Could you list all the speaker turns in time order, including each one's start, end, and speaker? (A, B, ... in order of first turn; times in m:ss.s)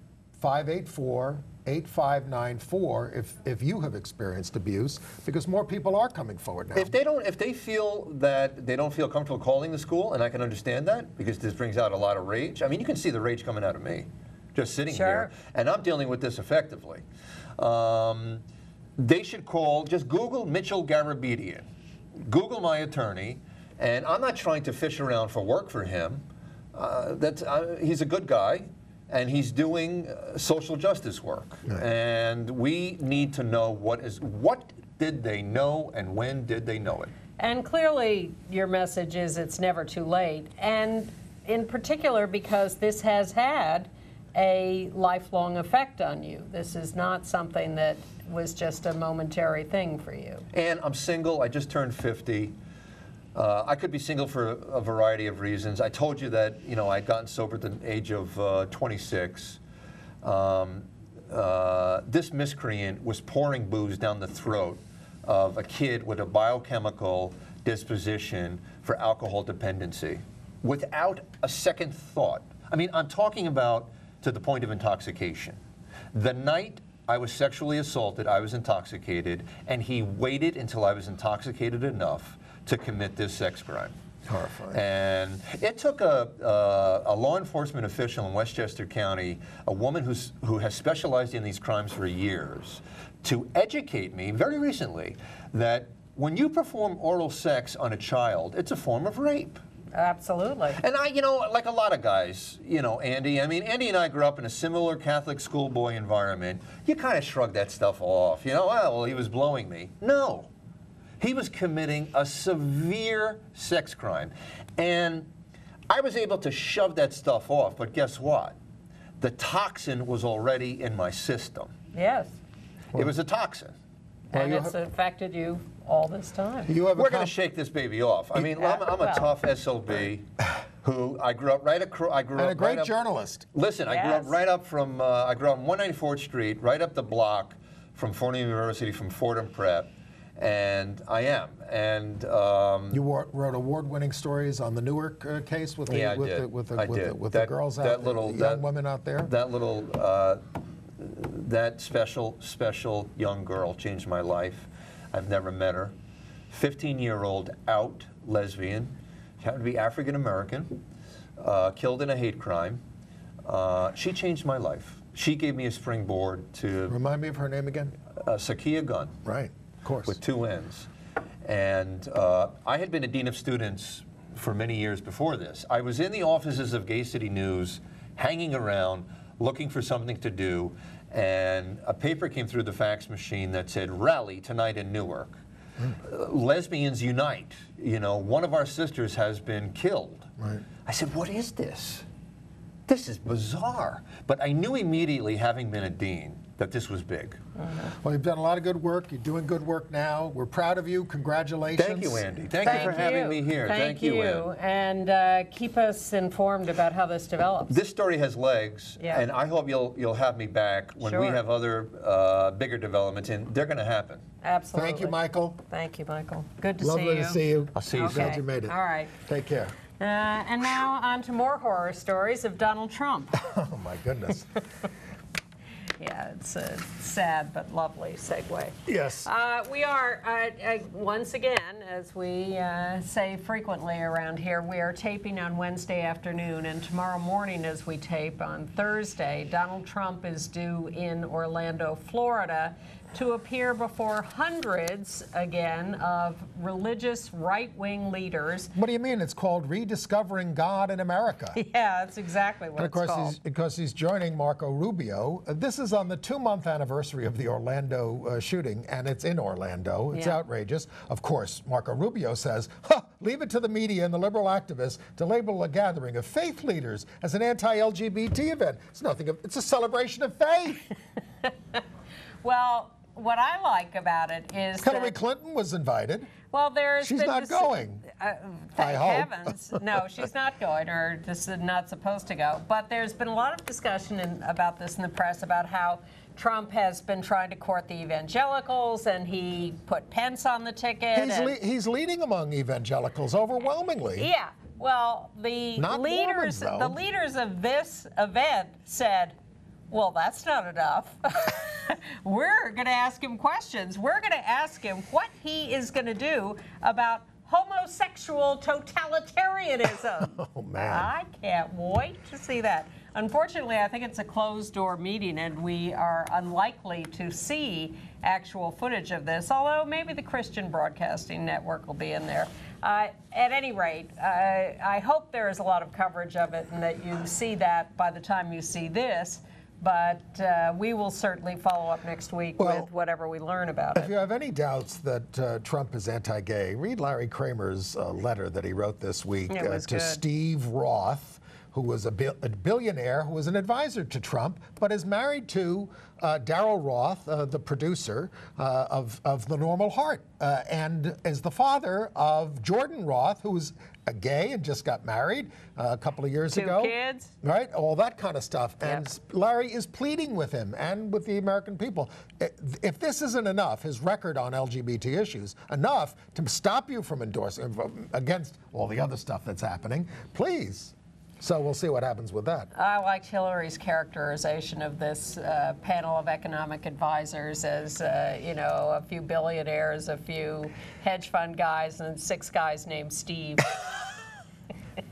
0:00.4-0:06.9 A
0:06.7-0:17.0 B
0:14.9-0:15.3 C
0:17.6-0:18.4 B
0:19.0-0:21.7 B
0:22.2-0:37.1 B
0:37.4-0:50.4 C
0:50.5-0:52.5 B
0:53.3-0:59.6 B
1:00.2-1:15.6 B
1:16.1-1:23.9 B
1:24.2-1:24.8 A
1:24.7-1:39.6 B
1:39.9-1:40.8 C
1:40.8-1:50.5 B
1:51.2-1:55.3 B
1:55.9-1:58.6 B
1:59.2-2:01.7 B
2:01.9-2:02.4 C
2:02.9-2:03.8 B
2:04.3-2:06.7 C
2:04.3-2:04.7 A
2:06.7-2:07.3 A
2:06.9-2:10.3 B
2:08.4-2:09.3 C
2:10.8-2:12.9 B
2:12.4-2:13.5 A
2:13.5-2:23.0 B
2:13.9-2:14.4 C
2:22.9-2:29.3 A
2:25.9-2:28.6 B
2:29.2-2:30.4 B
2:31.0-2:35.9 B
2:36.5-2:40.8 B
2:41.4-2:42.8 B
2:43.4-2:47.0 B
2:46.9-2:48.0 A
2:48.2-2:49.1 B
2:49.2-2:50.2 A
2:50.0-2:50.9 B
2:51.4-3:05.4 B
3:06.0-3:10.3 B
3:10.4-3:10.6 A
3:10.8-3:12.0 B
3:12.9-3:17.4 B
3:17.6-3:17.9 C
3:18.0-3:23.0 A
3:21.8-3:24.4 B
3:22.6-3:27.8 C
3:27.7-3:34.2 B
3:29.0-3:29.2 C
3:31.0-3:31.4 C
3:34.4-3:35.2 C
3:34.7-3:35.6 A
3:35.7-3:39.1 C
3:36.8-3:39.7 A
3:37.8-3:38.4 B
3:40.0-3:43.4 C
3:43.4-3:44.6 A
3:46.0-4:08.7 C
3:48.8-3:49.3 A
4:08.7-4:11.6 A
4:11.5-4:13.3 C
4:12.8-4:30.8 A
4:20.1-4:20.4 C
4:32.4-4:35.2 C
4:34.8-4:36.3 A
4:36.5-4:51.6 C
4:37.0-4:38.0 A
4:38.8-4:39.5 A
4:51.1-4:54.3 A
4:54.2-4:59.4 C
4:55.8-4:57.0 A
4:59.9-5:34.1 C
5:10.2-5:11.1 A
5:32.6-5:32.9 A
5:33.9-6:12.7 A
5:39.5-5:40.2 C
5:56.5-5:57.3 C
6:12.7-6:23.7 C